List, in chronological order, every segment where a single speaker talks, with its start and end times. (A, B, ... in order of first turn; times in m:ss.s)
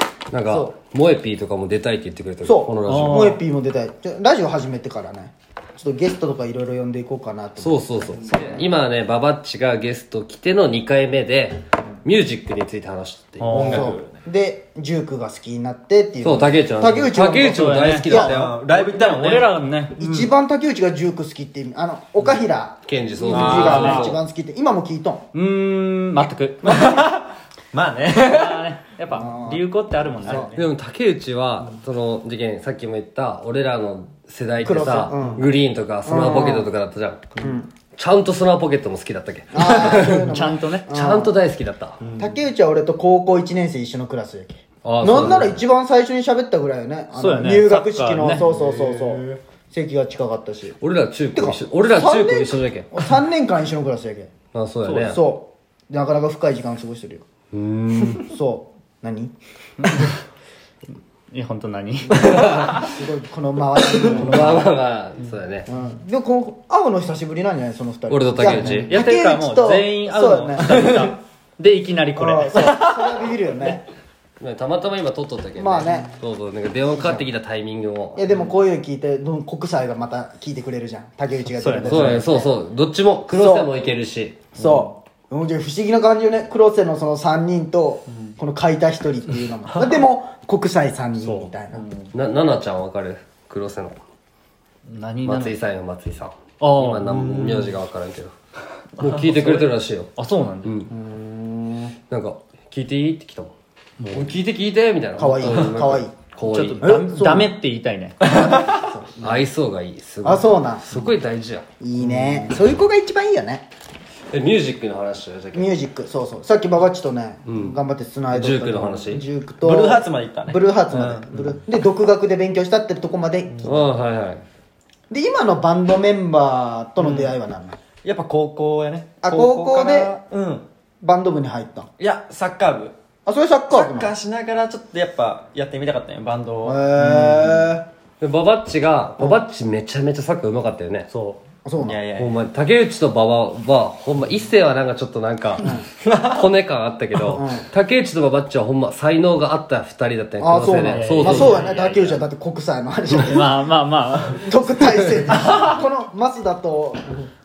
0:00.3-0:03.3 A
0:00.5-0:00.7 B
0:02.4-0:08.5 B
0:02.8-0:03.4 C
0:07.6-0:13.9 A
0:13.4-0:14.0 C
0:13.5-0:18.3 B
0:13.6-0:14.0 D
0:16.2-0:18.5 A
0:17.5-0:18.2 C
0:18.1-0:20.3 D
0:18.7-0:20.0 C
0:20.0-0:25.2 B
0:22.8-0:24.2 A
0:23.3-0:24.1 D
0:23.3-0:24.1 C
0:25.3-0:26.9 C
0:26.6-0:27.1 B
0:26.7-0:28.8 D
0:28.2-0:30.7 C
0:29.1-0:30.5 B
0:30.3-0:37.3 A
0:34.6-0:35.5 B
0:36.0-0:36.7 B
0:37.4-0:37.7 B
0:38.0-0:40.3 A
0:39.5-0:41.3 B
0:39.9-0:40.8 C
0:40.9-0:42.0 A
0:42.0-0:42.4 D
0:42.2-0:50.8 B
0:44.8-0:45.6 A
0:47.2-0:48.4 C
0:48.6-0:49.4 D
0:50.8-0:52.9 A
0:51.3-0:54.3 B
0:54.5-0:55.2 A
0:54.8-0:55.2 C
0:55.1-0:57.2 B
0:57.5-0:58.3 A
0:58.2-0:59.3 B
1:01.3-1:02.4 C
1:02.2-1:02.9 A
1:02.6-1:04.7 B
1:04.0-1:05.7 A
1:05.7-1:10.7 B
1:08.1-1:09.0 A
1:08.6-1:12.8 C
1:12.2-1:13.8 B
1:12.8-1:13.3 D
1:14.4-1:18.2 A
1:15.6-1:16.1 B
1:16.9-1:17.2 B
1:18.1-1:22.5 B
1:21.4-1:22.2 C
1:21.8-1:24.5 A
1:23.3-1:23.7 B
1:24.5-1:31.9 B
1:31.2-1:31.5 C
1:32.1-1:34.0 A
1:34.9-1:35.6 C
1:35.2-1:38.3 A
1:36.6-1:37.2 C
1:37.1-1:37.7 D
1:39.0-1:40.1 A
1:39.0-1:39.6 D
1:40.2-1:40.7 C
1:40.6-1:40.9 A
1:40.9-1:41.9 B
1:42.1-1:43.5 A
1:44.0-1:44.3 C
1:44.1-1:46.9 A
1:45.2-1:46.1 B
1:46.4-1:48.3 C
1:46.8-1:47.5 B
1:48.2-1:49.4 B
1:48.4-1:48.9 D
1:49.2-1:51.6 A
1:50.2-1:50.8 B
1:51.8-1:53.6 B
1:52.0-1:52.5 D
1:54.3-1:55.7 A
1:55.5-2:03.9 B
1:57.5-1:57.8 A
1:58.3-1:59.2 A
1:59.6-2:01.5 D
2:03.6-2:04.4 A
2:05.1-2:07.8 B
2:07.0-2:07.4 D
2:08.0-2:10.7 D
2:09.2-2:10.1 B
2:11.0-2:11.9 B
2:12.0-2:12.9 D
2:13.2-2:14.1 B
2:13.7-2:17.7 D
2:16.6-2:17.8 B
2:18.2-2:21.1 A
2:21.1-2:21.4 C
2:21.6-2:22.0 B
2:21.8-2:22.4 D
2:22.2-2:32.2 A
2:26.0-2:26.5 D
2:27.3-2:27.6 B
2:30.4-2:33.6 B
2:30.8-2:31.7 C
2:33.1-2:35.0 C
2:34.3-2:37.2 B